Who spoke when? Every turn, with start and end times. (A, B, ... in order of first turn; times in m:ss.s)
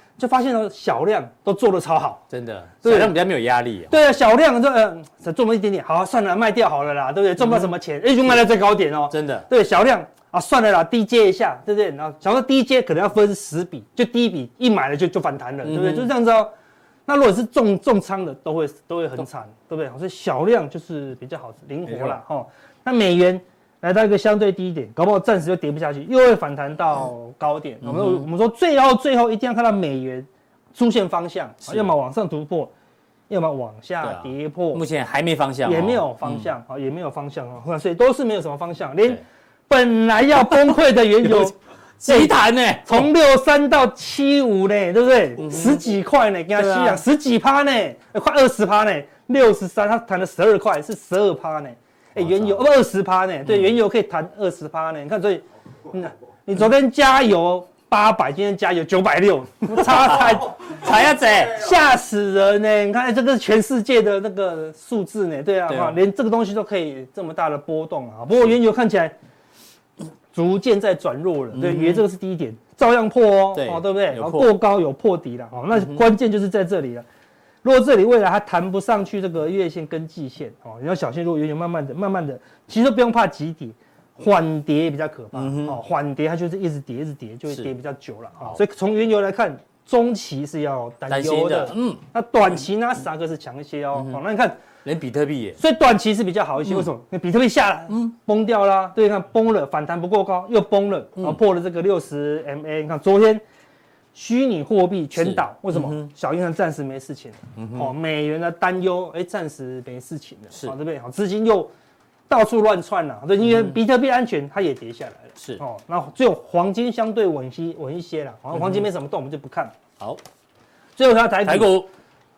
0:00.2-0:02.2 A
0:02.3-0:04.0 B
0:02.8-0:03.1 A
0:03.9-0:16.5 A
0:07.4-0:07.7 B
0:09.1-0:09.5 B
0:15.6-0:16.1 B
0:17.1-0:32.7 A
0:21.8-0:22.2 B
0:27.8-0:28.2 B
0:31.6-0:31.9 B
0:33.3-0:34.8 A
0:34.0-0:36.5 B
0:35.7-0:41.5 A
0:41.2-0:43.1 B
0:42.1-1:00.8 A
0:45.4-0:45.8 B
0:46.6-0:47.0 B
0:52.2-0:52.6 B
0:53.5-0:53.7 B
0:59.8-1:01.6 B
1:01.4-1:09.1 A
1:05.7-1:06.0 B
1:10.3-1:17.0 A
1:11.5-1:12.0 B
1:13.6-1:14.5 B
1:15.7-1:16.0 B
1:17.6-1:34.6 A
1:25.3-1:25.8 B
1:31.1-1:32.0 B
1:34.8-1:35.6 B
1:35.6-1:43.4 A
1:44.1-1:51.7 A
1:45.2-1:46.1 B
1:47.6-1:47.9 B
1:52.3-1:59.7 A
1:53.5-1:53.8 B
1:55.4-1:55.6 B
1:58.6-1:58.8 B
2:01.0-2:01.7 A
2:01.4-2:01.9 B